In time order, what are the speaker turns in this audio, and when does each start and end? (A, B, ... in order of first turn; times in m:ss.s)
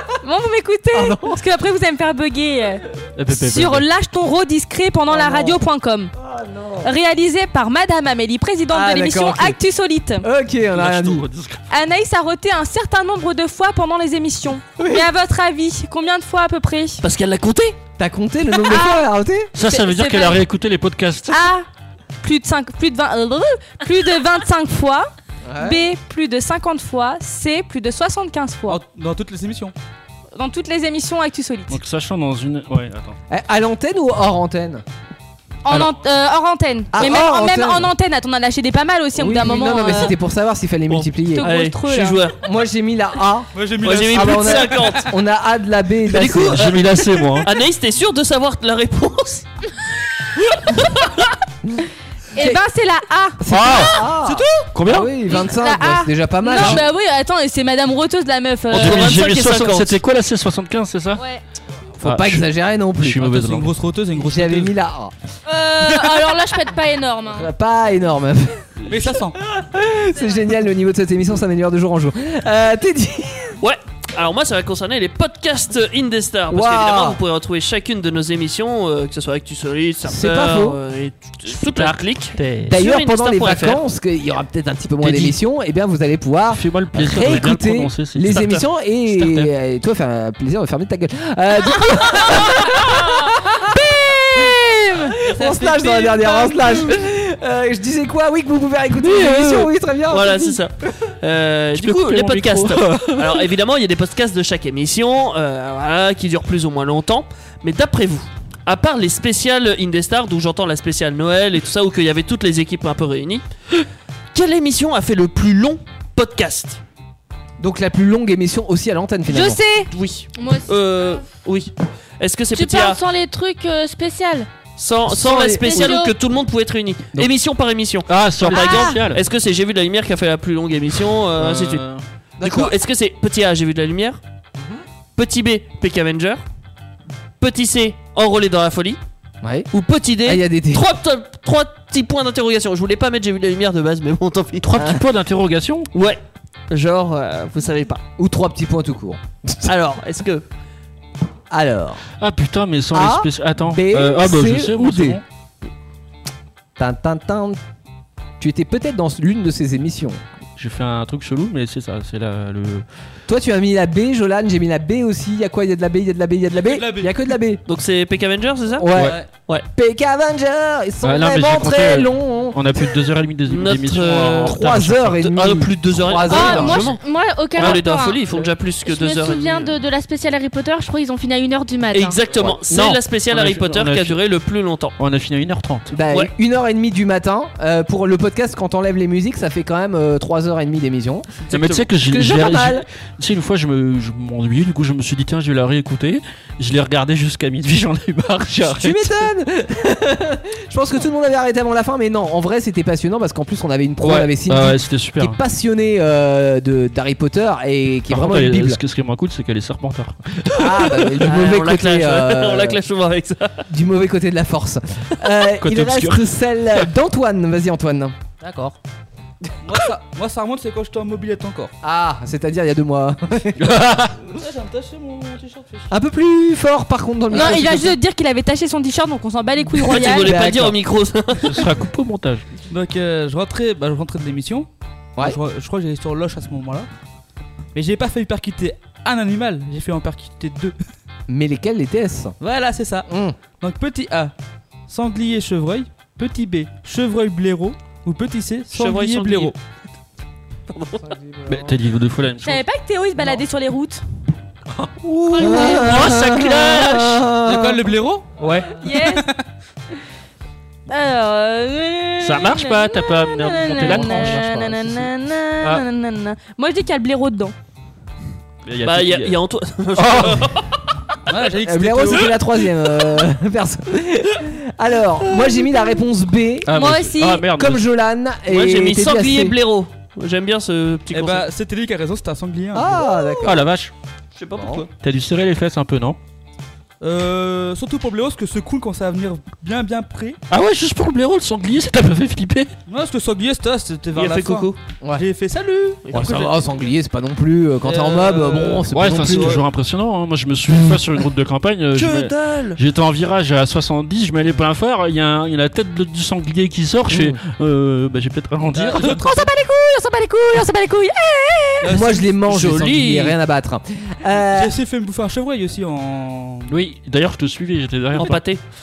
0:00.2-0:06.1 A
0:00.9-0:01.4 B
0:03.2-0:03.8 C
0:05.1-0:05.6 B
0:06.2-0:06.9 B
0:06.8-0:10.2 A
0:08.7-0:09.6 B
0:10.2-0:11.2 B
0:10.7-0:11.6 C
0:11.7-0:17.0 A
0:14.8-0:15.1 B
0:17.0-0:17.8 D
0:18.0-0:19.5 B
0:18.6-0:19.1 A
0:19.5-0:21.5 C
0:19.6-0:20.4 A
0:21.3-0:21.6 A
0:22.2-0:28.8 A
0:25.5-0:25.8 B
0:28.7-0:29.7 E
0:30.3-0:31.8 A
0:31.7-0:33.2 C
0:33.3-0:34.8 B
0:35.6-0:40.1 A
0:36.9-0:37.9 B
0:39.1-0:41.5 B
0:40.9-0:42.4 D
0:41.4-0:42.2 A
0:42.4-0:43.5 B
0:43.5-0:45.1 E
0:43.8-0:45.1 D
0:44.0-0:46.8 B
0:46.1-0:46.8 D
0:46.5-0:47.5 C
0:47.4-0:49.4 D
0:50.5-0:51.1 D
0:52.4-0:53.4 A
0:53.4-0:56.9 B
0:53.5-0:54.0 C
0:54.1-0:54.7 E
0:54.7-0:55.1 C
0:55.2-0:59.2 A
0:58.7-1:00.0 D
0:58.7-1:01.2 C
1:02.0-1:03.4 B
1:02.0-1:03.7 C
1:03.2-1:04.7 E
1:04.1-1:05.1 B
1:05.5-1:07.5 F
1:05.9-1:06.3 A
1:07.3-1:13.6 B
1:08.9-1:09.4 E
1:13.6-1:23.8 D
1:16.5-1:17.2 B
1:20.0-1:20.8 B
1:21.5-1:22.7 C
1:22.7-1:34.5 B
1:25.0-1:25.3 C
1:26.5-1:28.4 C
1:28.3-1:28.6 D
1:29.1-1:29.5 C
1:33.9-1:35.2 A
1:35.2-1:40.6 B
1:35.4-1:36.3 E
1:39.0-1:39.7 C
1:40.1-1:53.4 D
1:41.7-1:43.4 C
1:54.3-1:56.8 D
1:57.6-1:59.6 B
1:59.3-1:59.9 A
1:59.9-2:03.0 D
2:00.3-2:01.2 F
2:02.5-2:04.5 F
2:04.8-2:11.8 D
2:05.1-2:06.0 B
2:05.6-2:06.1 F
2:08.1-2:09.2 C
2:08.5-2:09.0 A
2:11.4-2:12.0 C
2:12.4-2:12.7 B
2:12.4-2:14.2 D
2:15.2-2:16.4 D
2:17.4-2:19.0 D
2:19.4-2:19.7 B
2:19.7-2:24.6 D
2:20.2-2:20.8 B
2:24.6-2:25.9 C
2:24.8-2:25.0 B
2:25.9-2:26.2 D
2:26.7-2:28.0 D
2:28.2-2:29.9 B
2:29.6-2:30.4 D
2:31.5-2:32.0 B
2:32.2-2:35.2 C
2:32.9-2:35.2 B
2:36.8-2:37.6 B
2:38.4-2:40.2 B
2:40.6-2:42.8 C
2:43.3-2:47.6 B
2:46.5-2:47.2 E
2:47.6-2:49.6 D
2:48.8-2:49.2 B
2:49.0-2:49.3 E
2:49.7-2:52.6 B
2:51.0-2:55.3 C
2:53.4-2:54.6 D
2:54.4-2:56.8 B
2:55.2-2:57.0 D
2:56.3-3:02.2 F
2:57.5-2:59.8 D
3:01.9-3:04.9 D
3:02.4-3:03.0 B
3:02.7-3:04.2 C
3:05.0-3:05.9 C
3:05.9-3:11.3 B
3:11.4-3:11.8 D
3:11.5-3:19.1 C
3:12.0-3:12.8 B
3:18.6-3:28.8 B
3:24.0-3:25.4 C
3:28.1-3:30.5 C
3:30.6-3:32.8 B
3:31.2-3:33.6 D
3:33.7-3:38.2 B
3:35.6-3:36.2 C
3:38.4-3:38.7 E
3:39.6-3:41.7 E
3:41.8-3:43.6 B
3:43.6-3:44.2 C
3:44.3-3:45.9 E
3:45.9-3:48.0 B
3:47.3-3:50.4 A
3:49.8-3:51.6 D
3:50.0-3:50.8 B
3:51.4-3:52.4 C
3:52.7-3:54.7 E
3:55.2-3:56.9 E
3:57.7-4:00.7 E
4:01.3-4:02.4 B
4:02.4-4:04.3 E
4:03.1-4:03.4 B
4:04.9-4:09.5 E
4:08.7-4:09.6 D
4:10.7-4:11.0 D
4:11.0-4:11.8 B
4:11.5-4:12.6 C
4:12.4-4:14.0 A
4:14.8-4:17.3 C
4:15.3-4:17.9 B
4:15.4-4:16.0 A
4:17.4-4:19.4 E
4:18.7-4:19.3 A
4:20.9-4:27.5 A
4:22.2-4:24.4 C
4:23.8-4:24.8 B
4:23.9-4:24.3 E
4:28.6-4:29.4 C
4:28.8-4:30.6 D
4:30.0-4:30.4 C
4:31.3-4:32.4 E
4:31.6-4:36.8 B
4:35.4-4:35.9 A
4:36.6-4:37.8 C
4:36.7-4:37.5 A
4:37.5-4:39.6 B
4:38.5-4:41.4 D
4:41.1-4:43.3 E
4:42.7-4:43.7 B
4:43.4-4:43.9 C
4:44.3-4:44.9 D
4:44.6-4:44.8 B
4:45.0-4:46.2 C
4:47.0-4:50.4 E
4:50.5-4:52.7 C
4:52.9-4:56.5 E
4:54.1-4:54.8 D
4:56.0-4:56.5 D
4:56.1-4:59.6 B
4:57.8-4:59.6 E
4:58.9-5:09.2 C
5:01.9-5:02.8 D
5:07.1-5:07.4 B
5:08.7-5:09.4 E
5:09.0-5:12.0 A
5:11.8-5:12.3 E
5:11.8-5:14.7 B
5:12.4-5:13.4 D
5:14.4-5:16.7 E
5:16.7-5:18.4 C
5:18.2-5:18.6 D